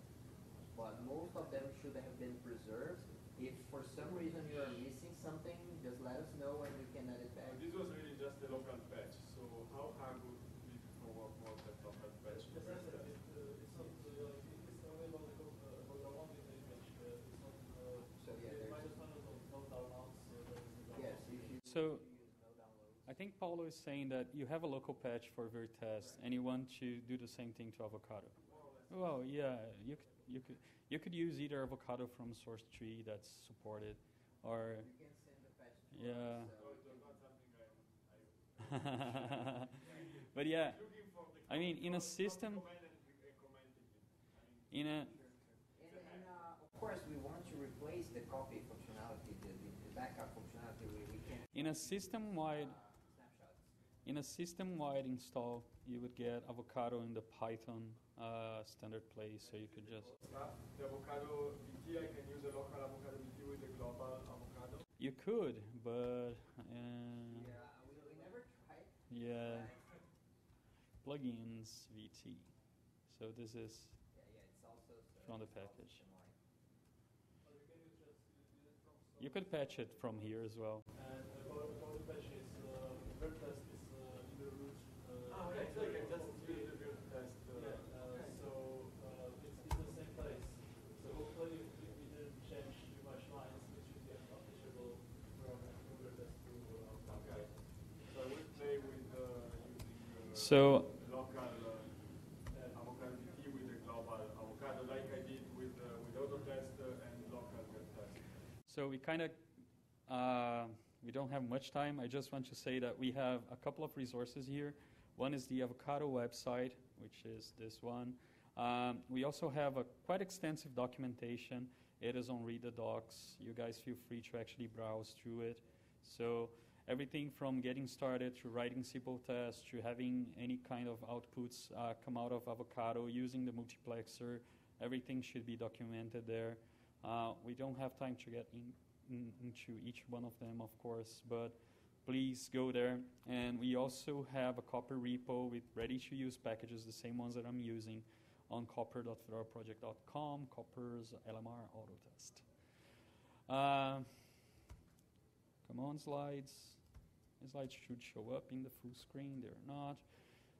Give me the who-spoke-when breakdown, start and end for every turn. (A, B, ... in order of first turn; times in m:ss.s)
0:00.7-0:07.6 A
0:07.4-0:14.2 B
0:12.3-0:21.6 C
0:18.2-0:18.9 A
0:20.9-0:23.1 A
0:21.6-0:22.0 D
0:23.0-0:28.4 D
0:28.4-0:29.4 B
0:28.9-0:34.9 D
0:34.8-0:37.2 A
0:35.9-0:36.5 D
0:36.5-0:44.8 B
0:38.6-0:42.6 D
0:39.8-0:40.2 A
0:44.7-0:45.1 D
0:45.0-0:53.8 A
0:45.8-0:46.3 B
0:51.5-0:52.8 D
0:54.0-1:00.1 D
0:59.4-1:00.2 C
1:00.2-1:04.9 B
1:05.0-1:07.5 D
1:07.2-1:10.0 A
1:09.1-1:09.7 D
1:11.0-1:12.5 D
1:13.0-1:14.0 D
1:14.1-1:16.4 A
1:15.2-1:16.0 D
1:17.4-1:20.1 C
1:19.2-1:20.8 D
1:20.9-1:37.8 C
1:25.3-1:28.5 B
1:37.0-1:48.4 B
1:40.3-1:40.9 D
1:42.5-1:42.8 C
1:48.6-1:49.4 D
1:50.1-2:32.5 D
2:33.5-2:34.4 D
2:35.6-2:40.1 D